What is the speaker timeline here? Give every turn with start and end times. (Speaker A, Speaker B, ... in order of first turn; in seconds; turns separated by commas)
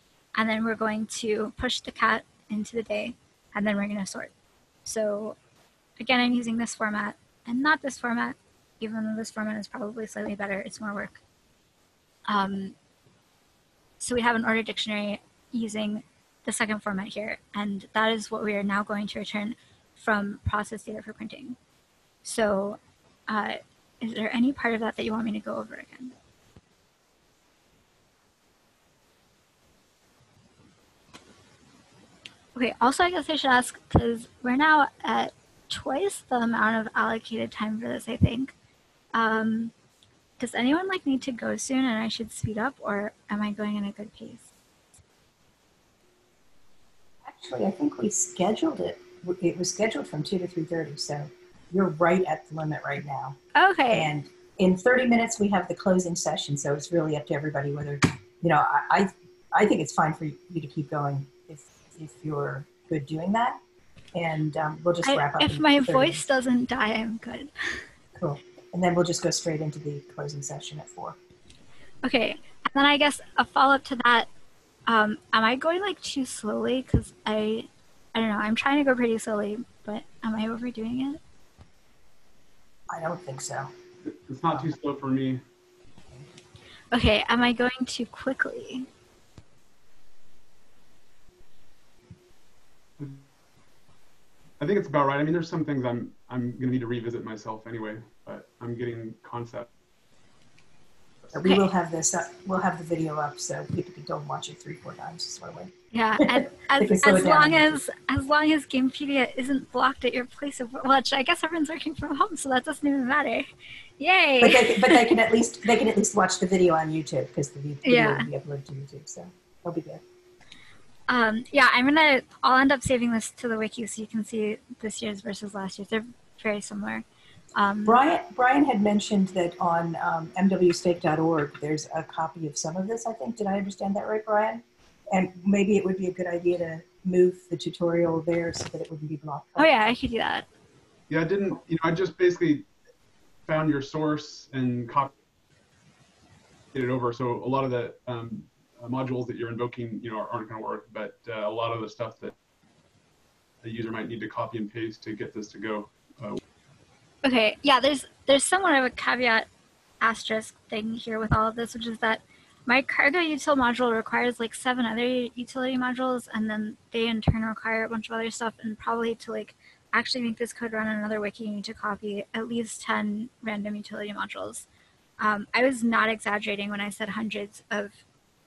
Speaker A: 0.3-4.3, Speaker A: 4.8-5.4, Speaker A: 6.0-11.2, Speaker A: 12.3-12.7, Speaker A: 14.0-21.6, Speaker A: 22.2-26.1, Speaker A: 32.5-38.5, Speaker A: 39.1-39.7, Speaker A: 40.4-44.5, Speaker B: 47.2-53.4, Speaker A: 53.5-54.1, Speaker B: 53.9-63.6, Speaker B: 64.1-66.2, Speaker A: 65.0-67.5, Speaker B: 68.1-71.2, Speaker A: 72.0-74.3, Speaker A: 74.9-81.2, Speaker B: 82.9-83.7, Speaker C: 84.0-85.4, Speaker A: 86.9-88.9, Speaker C: 93.0-93.2, Speaker C: 94.6-99.7, Speaker B: 101.3-107.8, Speaker A: 105.9-113.5, Speaker A: 114.0-115.0, Speaker B: 114.4-120.0, Speaker A: 117.8-118.3, Speaker A: 121.1-127.0, Speaker A: 127.5-128.0, Speaker B: 127.8-139.9, Speaker A: 139.6-140.5, Speaker C: 141.1-142.7, Speaker C: 143.5-145.1, Speaker C: 146.7-152.3, Speaker C: 153.6-156.4, Speaker A: 157.2-159.5, Speaker A: 160.0-174.7, Speaker A: 175.2-178.0